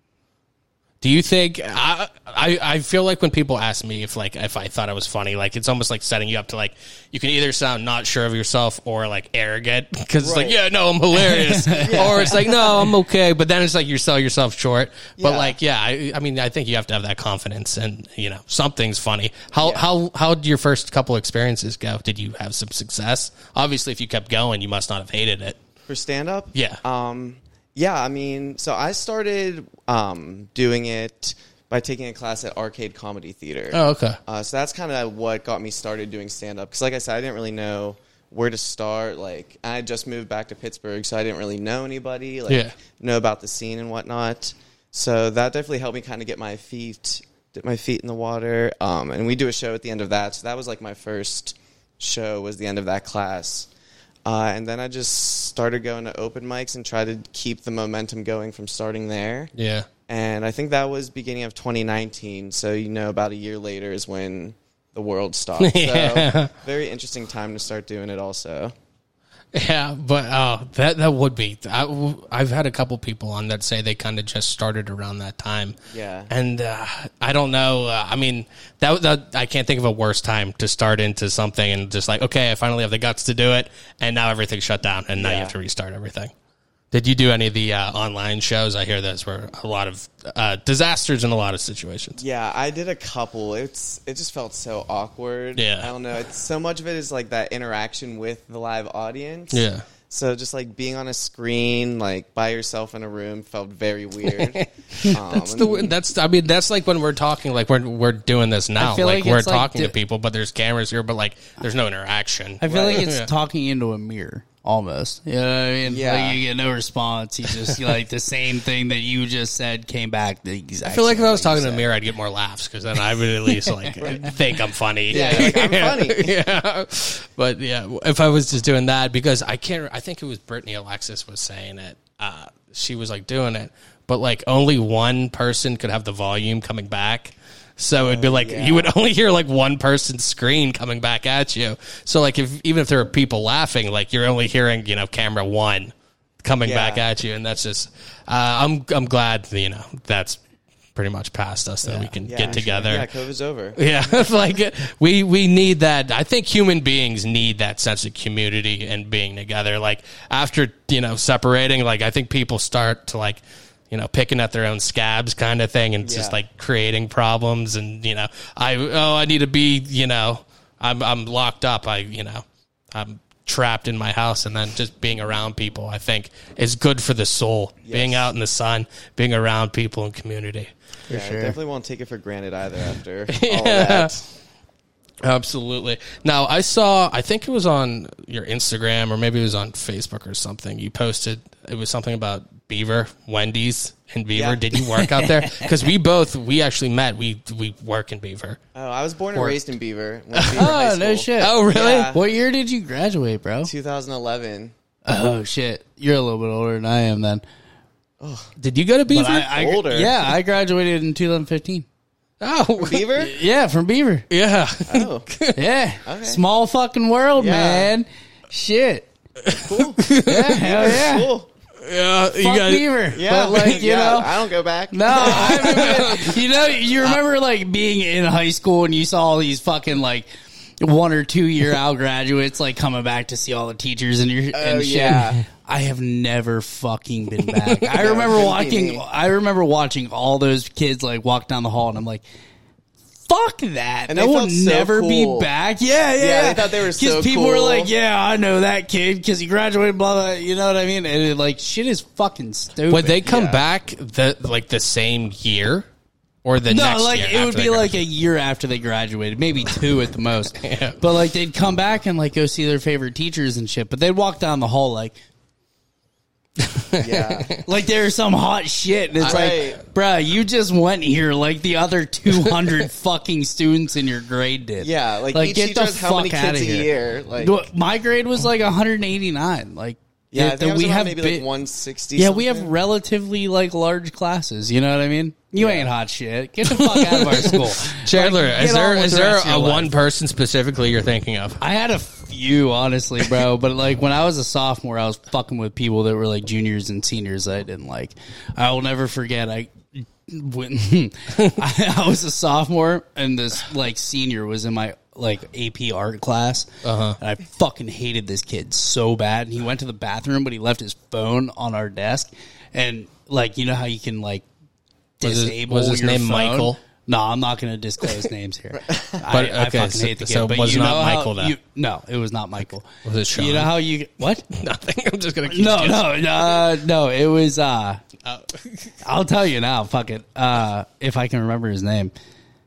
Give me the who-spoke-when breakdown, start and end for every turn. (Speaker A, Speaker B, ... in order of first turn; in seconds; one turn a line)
Speaker A: 1.0-25.6
Speaker B: 10.2-10.6
Speaker C: 11.3-12.3
Speaker B: 11.8-12.7
Speaker B: 15.2-15.6
Speaker B: 19.6-19.9
Speaker B: 25.9-53.7
Speaker A: 26.6-26.8
Speaker A: 33.7-34.2
Speaker A: 42.5-42.7
Speaker B: 54.3-59.5
Speaker A: 59.6-59.9
Speaker B: 60.1-68.7
Speaker A: 65.6-66.5
Speaker A: 69.5-75.8
Speaker B: 75.9-76.3
Speaker A: 76.3-86.3
Speaker B: 85.2-85.5
Speaker A: 86.9-92.2
Speaker B: 92.2-106.0
Speaker A: 95.5-95.9
Speaker A: 99.5-99.9
Speaker A: 104.2-113.3
Speaker C: 108.8-110.0
Speaker C: 112.6-121.9
Speaker B: 112.7-113.0
Speaker B: 115.8-116.4
Speaker A: 120.8-150.4
Speaker C: 123.6-124.3
Speaker B: 124.0-124.4
Speaker B: 125.1-126.3
Speaker C: 125.1-125.6
Speaker B: 137.9-138.9
Speaker B: 146.6-147.0
Speaker A: 150.9-153.1
Speaker B: 151.9-153.8
Speaker A: 153.8-180.7
Speaker B: 166.0-166.4
Speaker B: 177.8-178.2
Speaker C: 181.1-181.6
Speaker B: 181.1-184.2
Speaker A: 183.3-184.1
Speaker A: 185.2-198.6
Speaker B: 194.3-194.6
Speaker C: 195.0-195.7
Speaker B: 198.7-202.2
Speaker A: 200.3-200.7
Speaker C: 200.5-203.7
Speaker A: 201.4-202.1
Speaker B: 203.6-204.7
Speaker C: 205.1-207.4
Speaker B: 208.2-208.5
Speaker A: 208.6-209.5
Speaker C: 209.1-211.9
Speaker B: 209.4-210.2
Speaker A: 212.4-213.2
Speaker B: 212.8-213.3
Speaker C: 213.2-214.3
Speaker A: 214.3-215.6
Speaker B: 214.9-215.3
Speaker C: 215.6-219.1
Speaker B: 216.1-216.4
Speaker B: 217.3-217.9
Speaker A: 219.4-220.9
Speaker B: 219.6-220.0
Speaker C: 220.3-221.3
Speaker B: 220.6-221.5
Speaker A: 221.8-222.9
Speaker C: 222.4-230.3
Speaker B: 223.1-226.3
Speaker A: 225.2-226.3
Speaker C: 230.8-242.2
Speaker B: 234.5-235.4
Speaker B: 237.9-239.0
Speaker C: 243.3-253.2
Speaker B: 244.1-245.5
Speaker B: 246.2-247.9
Speaker A: 252.9-255.9
Speaker B: 253.2-253.6
Speaker A: 256.4-258.0
Speaker C: 256.7-265.2
Speaker A: 260.6-261.0
Speaker A: 266.9-267.6
Speaker B: 267.0-267.6
Speaker C: 267.6-281.4
Speaker B: 269.2-269.8
Speaker A: 269.2-269.6
Speaker A: 272.3-272.8
Speaker B: 274.8-277.7
Speaker B: 280.3-282.7
Speaker C: 282.1-289.9
Speaker B: 285.6-285.9
Speaker A: 286.6-291.6
Speaker C: 291.6-314.4
Speaker A: 306.8-307.2
Speaker C: 315.2-324.4
Speaker A: 315.2-316.8
Speaker B: 318.9-319.2
Speaker A: 319.3-321.6
Speaker A: 323.1-323.8
Speaker A: 324.4-326.6
Speaker C: 325.5-328.0
Speaker A: 328.2-328.9
Speaker C: 329.0-332.1